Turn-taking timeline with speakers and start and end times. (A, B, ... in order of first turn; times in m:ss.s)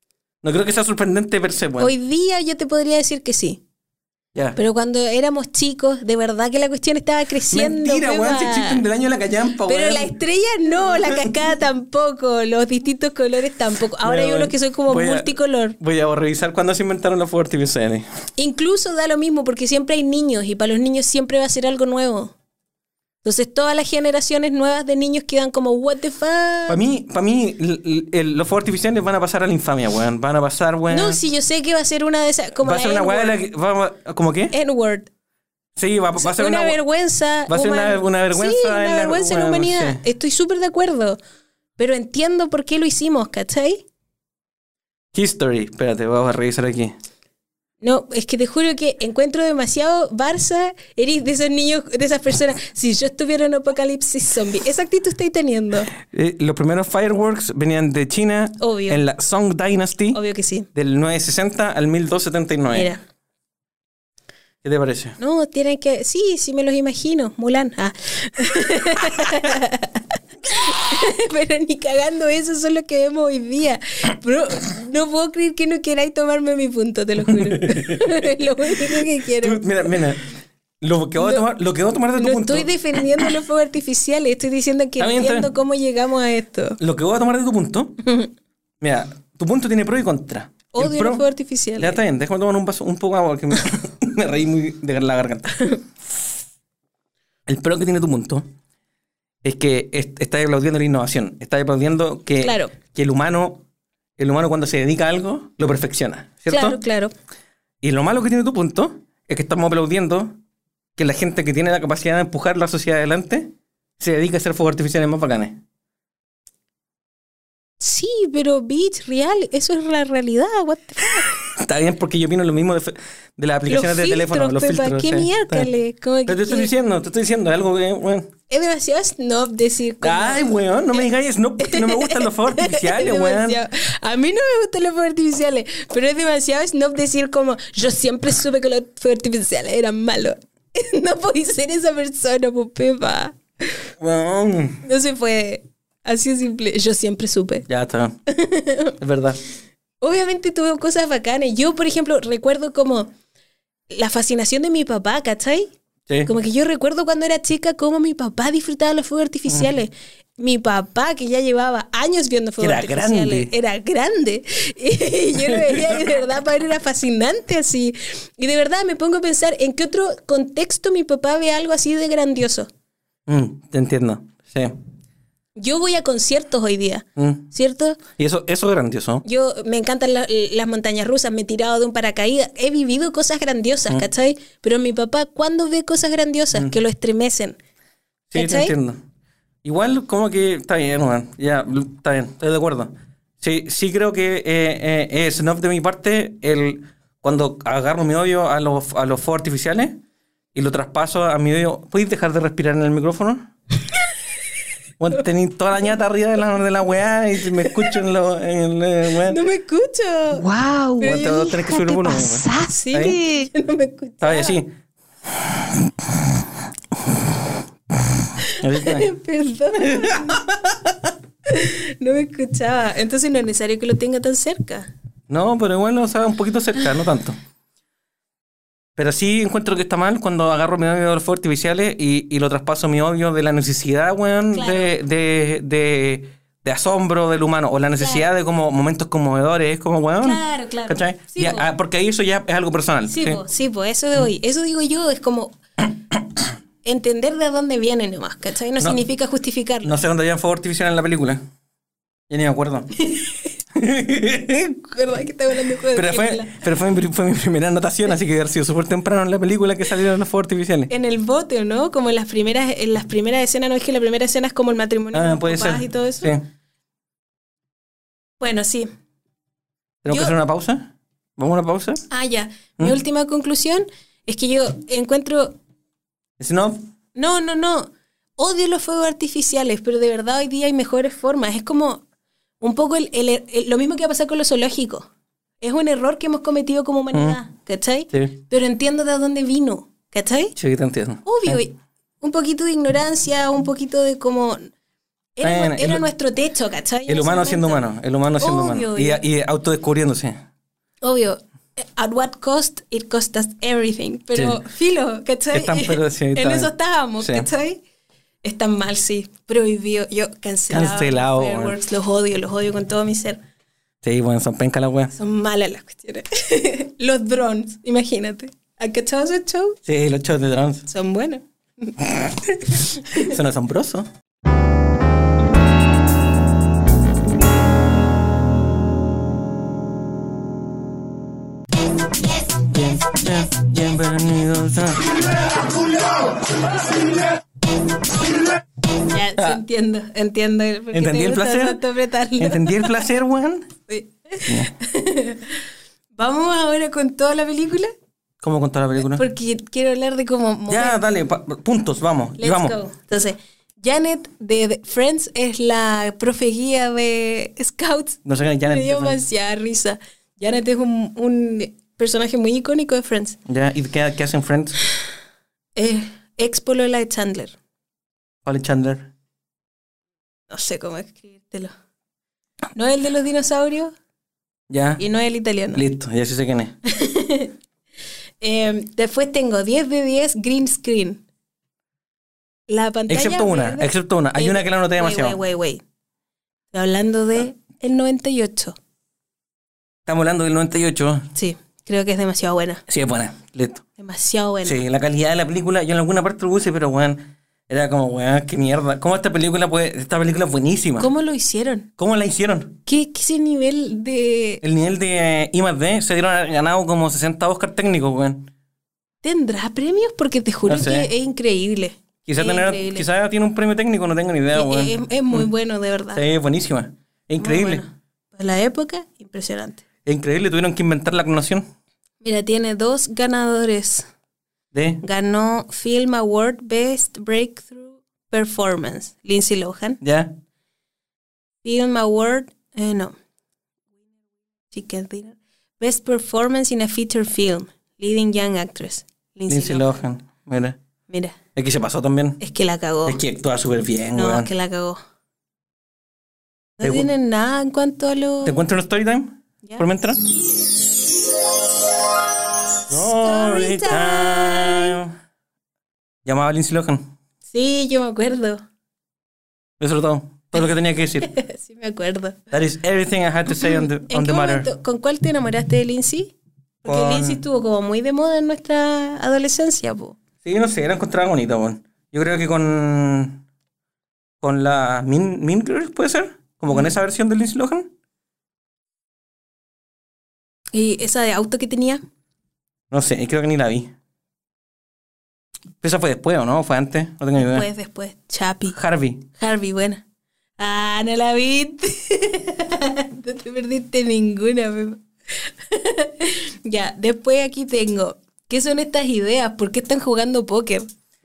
0:00.4-0:01.9 A
0:01.8-0:03.6 B
0:04.6-0:08.8 B
0:07.5-0:10.1 A
0:09.6-0:15.8 B
0:10.8-0:11.3 A
0:14.0-0:18.0 A
0:18.4-0:22.3 B
0:23.2-0:26.8 B
0:26.7-0:31.2 A
0:30.9-0:33.4 B
0:32.6-0:34.5 A
0:34.5-0:35.1 B
0:35.8-0:36.8 A
0:36.2-0:41.2 B
0:37.5-0:40.0 A
0:41.8-0:43.8 B
0:45.1-0:46.9 A
0:47.8-0:55.9 B
0:56.0-1:00.2 A
0:58.6-0:59.0 B
1:00.1-1:00.7 B
1:00.7-1:02.9 A
1:02.7-1:03.0 B
1:04.6-1:05.2 A
1:05.2-1:19.6 B
1:17.2-1:18.1 A
1:18.7-1:20.3 A
1:20.8-1:23.3 A
1:21.2-1:21.4 B
1:22.2-1:26.8 B
1:25.0-1:25.5 A
1:26.8-1:28.0 A
1:28.0-1:28.3 B
1:28.8-1:31.2 A
1:30.7-1:32.0 B
1:31.8-1:35.7 A
1:37.5-1:38.4 A
1:39.4-1:43.6 A
1:42.4-1:42.7 B
1:44.2-1:46.8 A
1:46.5-1:47.1 B
1:47.8-1:50.3 A
1:51.0-1:55.6 A
1:57.8-2:01.3 B
2:01.3-2:05.7 A
2:03.7-2:06.7 B
2:06.3-2:08.3 A
2:08.5-2:11.0 B
2:10.0-2:13.6 A
2:11.6-2:23.8 B
2:24.0-2:24.8 A
2:24.8-2:27.6 B
2:27.7-2:28.2 A
2:28.3-2:29.0 B
2:29.0-2:29.4 A
2:30.0-2:33.1 B
2:33.9-2:35.7 B
2:36.2-2:52.7 B
2:42.6-2:43.5 A
2:45.4-2:46.2 A
2:53.3-2:54.7 A
2:55.6-2:58.0 B
2:57.2-2:57.4 A
2:58.1-2:59.2 A
2:59.2-3:07.6 B
3:08.3-3:09.0 A
3:08.3-3:08.7 B
3:09.6-3:20.0 A
3:20.5-3:23.5 A
3:25.0-3:29.4 A
3:27.6-3:28.0 B
3:29.2-3:30.4 B
3:30.3-3:33.5 C
3:31.0-3:31.6 B
3:31.0-3:33.2 A
3:32.7-3:34.6 B
3:34.2-3:34.7 A
3:35.3-3:36.5 A
3:37.0-3:37.4 A
3:37.9-3:39.1 A
3:38.4-3:40.5 B
3:39.8-3:41.1 A
3:41.5-3:44.9 B
3:45.3-3:47.4 A
3:49.0-4:03.4 A
3:54.5-3:54.9 B
3:58.0-3:58.2 B
4:00.2-4:01.6 B
4:03.1-4:05.6 B
4:06.8-4:09.9 B
4:09.8-4:11.4 A
4:12.3-4:12.9 A
4:13.0-4:13.4 B
4:13.7-4:14.8 A
4:14.8-4:16.6 B
4:15.9-4:20.9 A
4:20.9-4:26.3 B
4:25.1-4:26.4 A
4:28.4-4:28.9 B
4:30.0-4:32.0 A
4:30.1-4:30.3 B
4:32.1-4:35.6 B
4:36.4-4:36.8 A
4:37.2-4:42.0 B
4:42.6-4:45.1 B
4:45.6-4:50.5 B
4:47.1-4:47.4 A
4:50.6-4:51.6 A
4:51.2-4:54.7 B
4:55.4-4:57.8 B
4:55.4-4:56.0 A
4:57.1-5:00.4 A
4:58.4-4:59.2 B
5:01.0-5:07.8 B
5:05.5-5:07.5 A
5:08.4-5:13.4 B
5:10.7-5:11.7 A
5:14.0-5:15.1 A
5:15.1-5:19.8 B
5:19.8-5:20.8 A
5:20.9-5:22.0 B
5:22.0-5:24.1 A
5:22.7-5:23.3 B
5:32.6-5:35.2 A
5:39.1-5:43.0 B
5:40.9-5:41.8 A
5:42.4-5:43.7 A
5:43.9-5:45.6 B
5:46.2-5:47.9 B
5:48.4-5:49.2 A
5:49.0-5:51.0 B
5:50.7-5:52.8 A
5:52.4-6:03.4 B
5:58.2-5:59.2 A
6:03.5-6:04.8 A
6:05.8-6:07.6 B
6:08.4-6:09.1 A
6:10.5-6:11.7 B
6:12.7-6:13.9 B
6:14.7-6:15.0 A
6:15.0-6:15.8 B
6:15.7-6:16.7 A
6:16.8-6:17.5 B
6:18.4-6:21.2 B
6:22.7-6:25.8 B
6:23.1-6:25.4 A
6:26.7-6:28.7 B
6:30.0-6:31.3 A
6:31.3-6:32.8 B
6:32.9-6:33.8 A
6:34.0-6:34.8 B
6:34.6-6:41.1 A
6:41.0-6:41.9 B
6:42.0-6:42.8 A
6:42.8-6:44.6 B
6:44.6-6:48.5 A
6:49.2-6:53.0 B
6:50.6-6:51.1 A
6:52.2-6:55.5 A
6:54.5-6:56.2 B
6:56.1-6:57.8 A
6:57.4-6:59.8 B
7:00.0-7:01.7 A
7:02.2-7:04.0 B
7:04.7-7:05.0 A
7:05.0-7:10.0 B
7:10.0-7:10.3 A
7:11.6-7:13.1 B
7:14.7-7:20.0 B
7:19.5-7:20.8 A
7:21.1-7:21.4 B
7:21.6-7:22.4 A
7:22.4-7:23.2 B
7:23.0-7:24.5 A
7:24.1-7:25.0 B
7:26.8-7:28.6 B
7:26.8-7:27.1 A
7:28.4-7:30.2 A
7:32.9-7:35.1 A
7:32.9-7:35.0 B
7:36.2-7:37.1 A
7:37.5-7:38.6 B
7:39.8-7:41.3 A
7:41.2-7:42.4 B
7:42.5-7:44.7 A
7:43.5-7:46.3 B
7:46.8-7:47.4 A
7:46.8-7:50.2 B
7:50.4-7:53.4 A
7:54.4-7:57.9 A
8:00.7-8:02.0 B
8:02.9-8:03.9 A
8:05.8-8:07.7 A
8:07.4-8:08.8 B
8:08.7-8:09.2 A
8:09.3-8:10.0 B
8:10.6-8:20.9 B